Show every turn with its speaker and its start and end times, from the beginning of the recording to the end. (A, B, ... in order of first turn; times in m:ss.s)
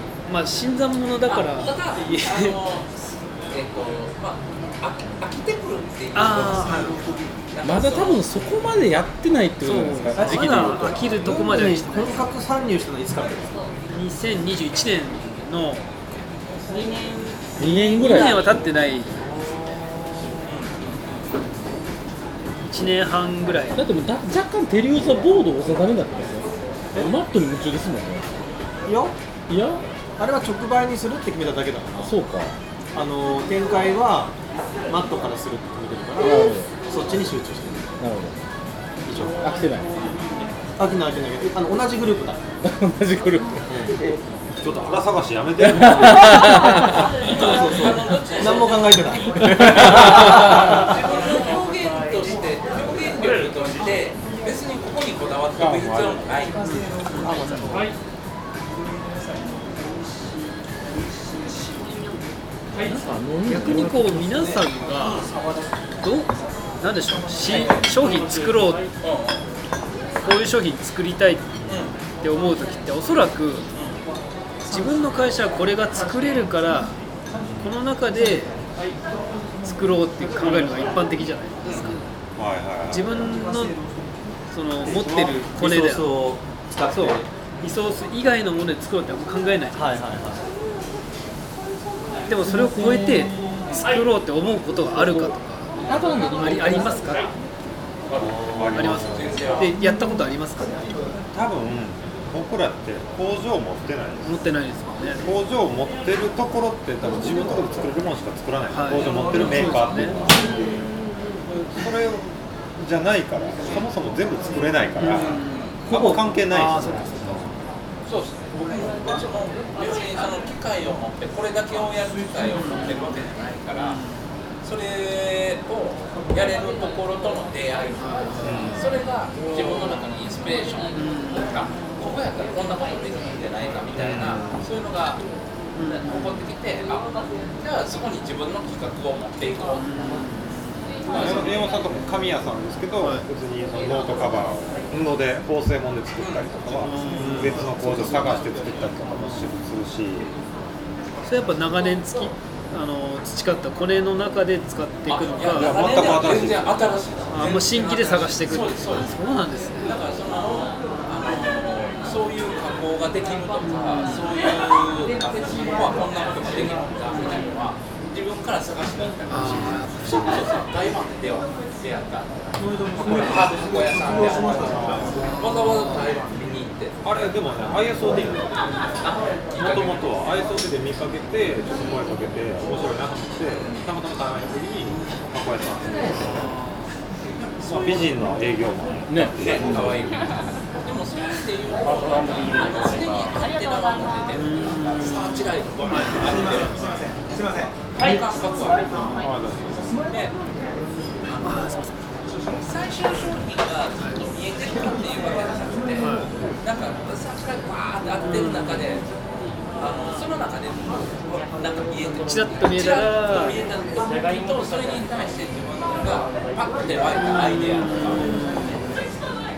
0:00.3-0:02.6 A
0:01.2-0:08.2 B
0:06.1-0:07.0 A
0:07.6-0:11.1 C
0:09.6-0:12.3 A
0:10.2-0:13.5 D
0:13.9-0:15.9 A
0:16.6-0:18.6 E
0:17.6-0:18.4 C
0:17.9-0:19.3 A
0:20.4-0:21.2 B
0:22.6-0:23.8 A
0:23.8-0:28.3 C
0:28.8-0:29.1 D
0:29.5-0:29.8 C
0:30.2-0:32.2 D
0:32.0-0:32.6 C
0:32.9-0:34.3 D
0:34.9-0:38.0 D
0:36.2-0:36.7 C
0:38.0-0:38.4 C
0:39.0-0:39.4 D
0:39.4-0:39.9 C
0:40.8-0:42.4 D
0:42.6-0:43.6 C
0:43.7-0:44.2 D
0:44.6-0:46.6 F
0:45.6-0:47.1 C
0:46.2-0:50.9 D
0:47.2-0:56.7 B
0:49.4-0:50.8 C
0:56.6-0:57.8 A
0:57.1-0:57.9 D
1:01.6-1:02.4 E
1:02.8-1:04.6 C
1:03.4-1:05.2 A
1:05.0-1:05.3 B
1:06.0-1:08.8 A
1:07.5-1:08.0 B
1:09.0-1:09.4 B
1:10.2-1:11.5 A
1:11.7-1:11.9 B
1:12.2-1:13.7 A
1:13.7-1:14.0 B
1:14.6-1:16.9 A
1:17.6-1:18.5 A
1:19.6-1:22.0 A
1:21.6-1:21.9 B
1:22.4-1:23.4 F
1:22.9-1:23.8 A
1:24.5-1:26.1 A
1:24.8-1:27.3 D
1:26.9-1:29.9 A
1:29.7-1:30.5 D
1:32.3-1:37.3 A
1:32.4-1:33.6 C
1:35.0-1:35.3 C
1:35.9-1:36.9 C
1:38.1-1:38.4 B
1:38.2-1:39.7 F
1:38.2-1:39.0 D
1:38.7-1:41.0 A
1:39.0-1:39.7 B
1:41.3-1:44.4 F
1:44.2-1:45.2 A
1:45.2-1:50.6 F
1:48.7-1:50.2 A
1:50.5-1:50.8 E
1:51.6-1:57.5 F
1:55.0-1:55.6 A
1:55.3-1:55.8 B
1:55.9-1:57.5 D
1:58.0-2:04.0 B
2:02.5-2:03.1 A
2:03.8-2:04.2 A
2:04.6-2:15.2 B
2:08.0-2:08.8 A
2:08.4-2:08.9 F
2:10.9-2:11.6 A
2:13.9-2:14.7 F
2:15.7-2:16.4 A
2:15.9-2:19.9 B
2:19.8-2:21.5 A
2:21.1-2:30.3 F
2:21.1-2:21.5 B
2:26.2-2:26.5 B
2:26.8-2:28.5 A
2:27.1-2:27.6 D
2:29.2-2:29.4 A
2:31.3-2:35.9 A
2:35.1-2:39.2 B
2:35.5-2:36.9 F
2:37.3-2:39.9 A
2:39.8-2:52.4 B
2:43.7-2:44.3 A
2:49.3-2:50.4 A
2:53.0-2:57.0 B
2:53.0-2:55.3 F
2:55.2-2:55.8 A
2:57.0-2:58.8 F
2:59.0-3:00.1 B
2:59.6-3:06.5 F
3:03.6-3:03.9 B
3:06.2-3:06.9 A
3:07.4-3:08.2 B
3:07.6-3:10.0 F
3:09.1-3:10.0 C
3:09.4-3:19.2 B
3:13.4-3:14.5 E
3:14.3-3:16.5 A
3:19.2-3:20.0 F
3:19.9-3:20.3 B
3:21.3-3:21.6 B
3:21.4-3:21.9 A
3:22.4-3:29.0 B
3:26.0-3:26.3 A
3:28.2-3:28.9 A
3:29.8-3:39.1 B
3:32.2-3:33.6 A
3:37.2-3:38.8 A